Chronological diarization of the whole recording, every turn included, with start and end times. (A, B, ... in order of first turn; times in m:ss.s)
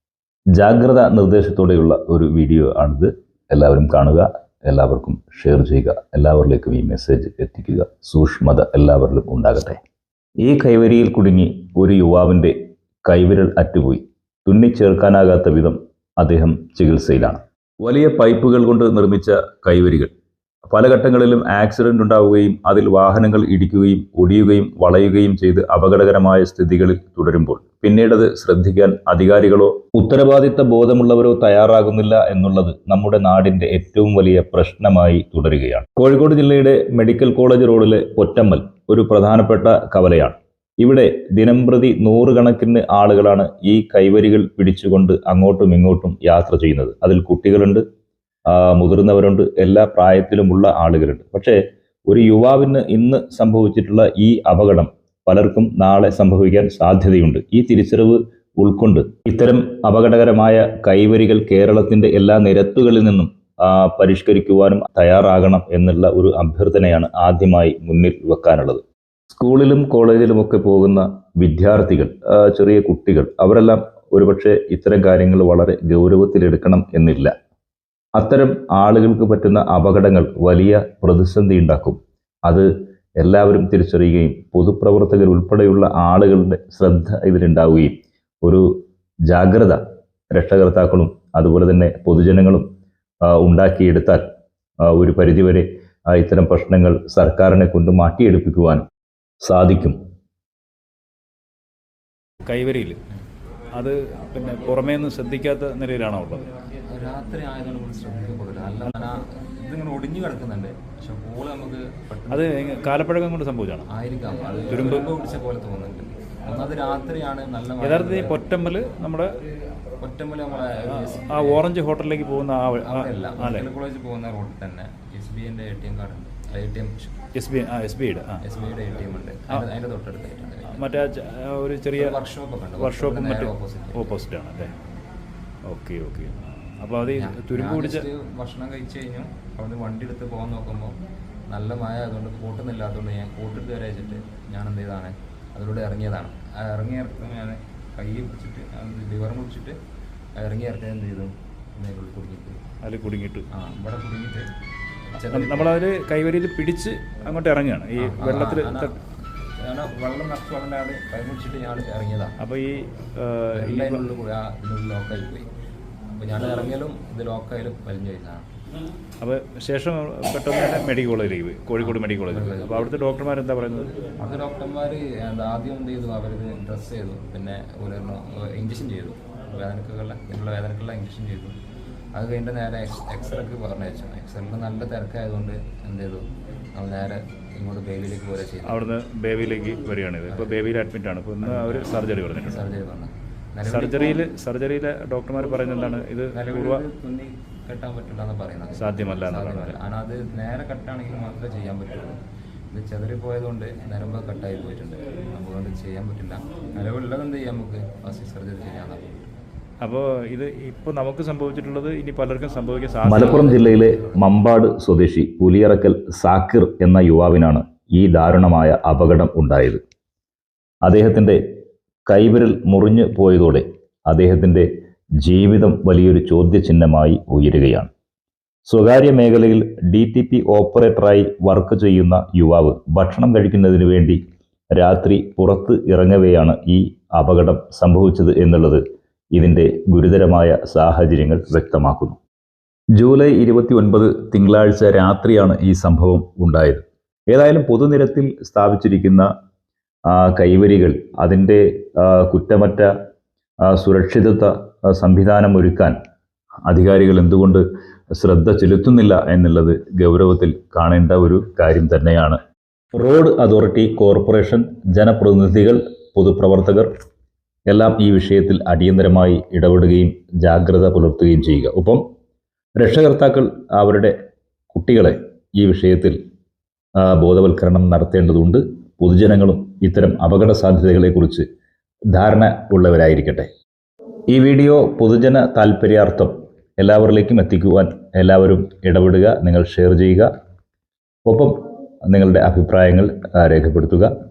0:00.6-0:09.8 A
0:10.4-0:20.1 A
0:20.6-0:47.8 A
0:48.5-1:17.3 A
1:18.2-1:28.8 A
1:29.3-1:32.6 A
1:33.2-1:34.3 A
1:34.8-1:38.8 A
1:39.4-1:40.0 A
1:42.4-1:43.0 B
1:43.7-1:46.5 B
1:46.9-1:52.5 C
1:52.3-1:53.9 B
1:53.9-1:58.4 C
1:54.7-1:55.1 B
1:57.8-1:59.3 B
2:00.0-2:01.7 C
2:01.0-2:03.7 B
2:02.8-2:07.2 C
2:07.4-2:08.4 B
2:08.4-2:10.9 C
2:10.7-2:12.2 B
2:12.0-2:14.2 C
2:12.8-2:14.7 B
2:15.7-2:18.1 B
2:17.0-2:21.0 C
2:21.5-2:29.8 C
2:30.4-2:32.6 C
2:32.8-2:33.5 B
2:33.5-2:34.5 C
2:35.1-2:35.8 C
2:35.3-2:39.0 B
2:38.0-2:39.0 C
2:39.6-2:42.4 C
2:42.4-2:44.0 B
2:43.5-2:45.5 C
2:46.2-2:48.4 C
2:49.2-2:54.0 B
2:51.8-2:52.9 C
2:54.2-3:01.6 C
3:02.1-3:08.8 C
3:08.6-3:12.7 B
3:10.3-3:10.7 C
3:11.4-3:14.3 C
3:13.6-3:16.8 B
3:16.3-3:22.2 C
3:18.8-3:19.8 B
3:22.7-3:29.3 C
3:29.8-3:33.5 B
3:33.0-3:39.8 A
3:33.1-3:34.2 C
3:40.8-3:41.4 A
3:42.1-3:44.7 A
3:45.2-3:47.9 A
3:48.7-3:54.2 A
3:54.7-3:58.8 A
3:59.3-4:02.2 A
4:03.0-4:09.3 A
4:10.1-4:12.9 A
4:13.7-4:16.0 A
4:16.7-4:22.4 A
4:23.0-4:26.9 A
4:27.7-4:32.0 A
4:32.8-4:34.2 A
4:34.7-4:36.2 A
4:37.0-4:41.4 A
4:42.1-4:43.5 A
4:44.3-4:50.3 A
4:51.3-4:54.1 A